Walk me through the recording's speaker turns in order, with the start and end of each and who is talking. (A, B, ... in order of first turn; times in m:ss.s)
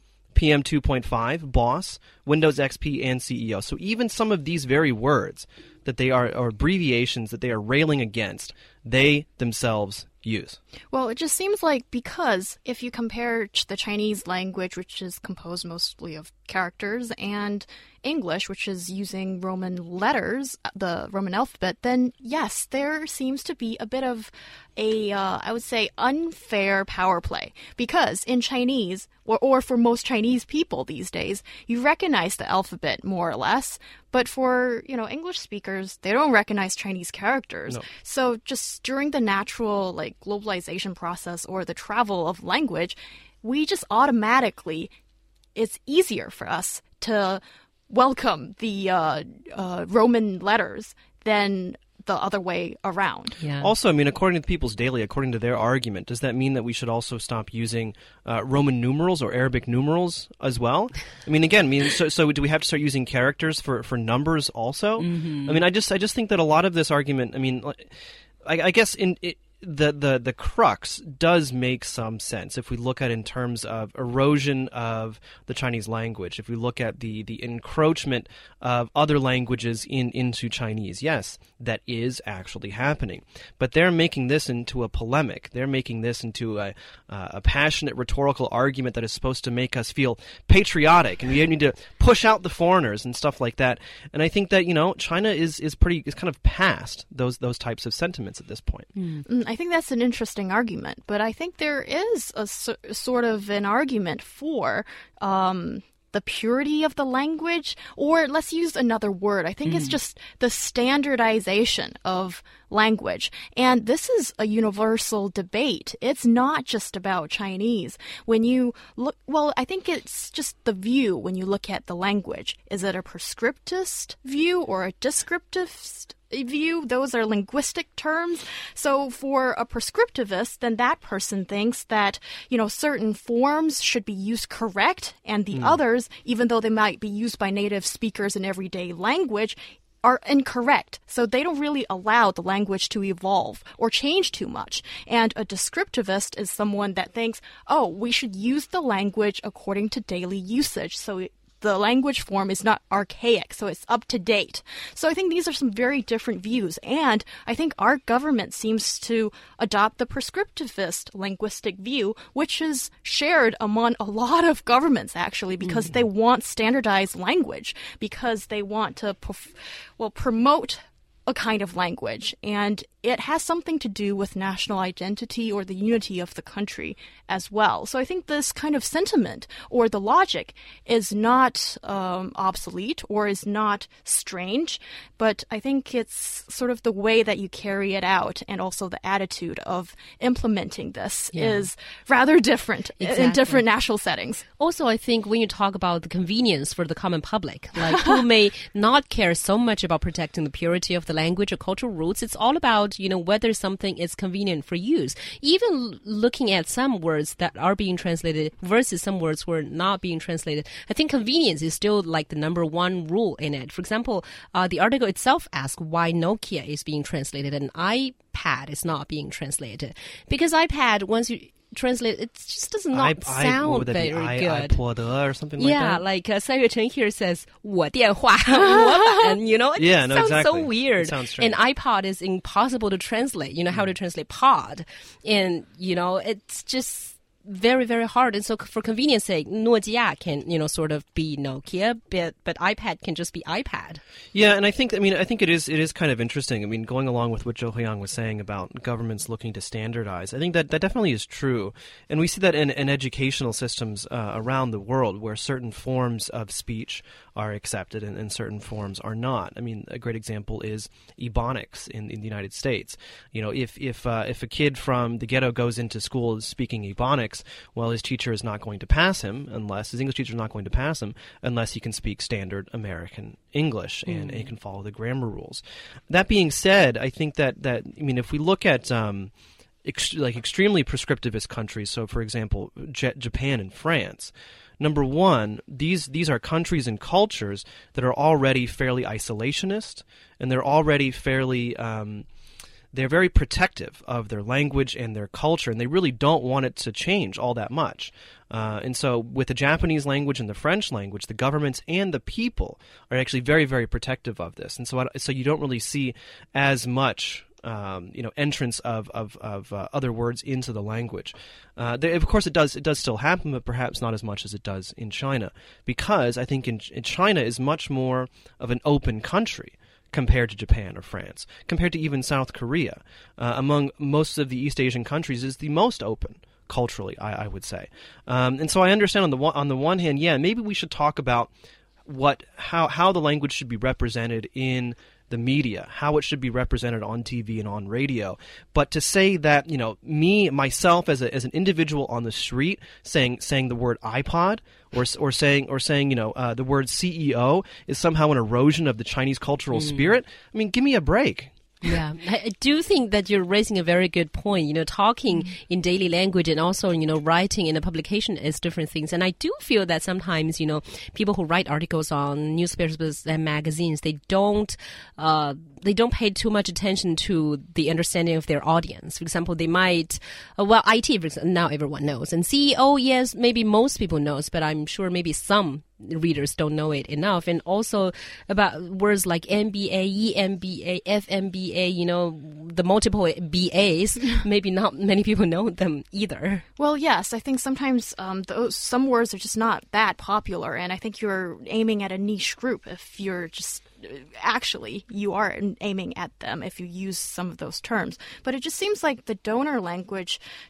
0:00.3-0:10.6 A
0:10.9-0:44.9 B
0:45.6-0:53.4 B
0:53.4-0:53.7 C
0:53.6-1:07.9 A
1:05.0-1:05.6 C
1:08.4-1:38.9 A
1:39.0-1:39.2 C
1:39.2-3:14.4 B
1:49.6-1:50.0 C
2:15.5-2:15.8 A
2:45.6-2:45.9 C
3:11.3-3:11.7 C
3:13.0-3:13.6 C
3:14.6-3:44.8 C
3:42.9-3:46.0 A
3:45.6-4:04.0 C
3:49.8-3:51.6 A
4:04.3-4:39.3 A
4:34.0-4:34.5 C
4:39.8-4:52.3 A
4:52.9-5:31.5 A
5:32.0-5:51.5 A
5:49.7-5:50.1 C
5:51.8-6:26.6 C
6:26.8-6:40.4 B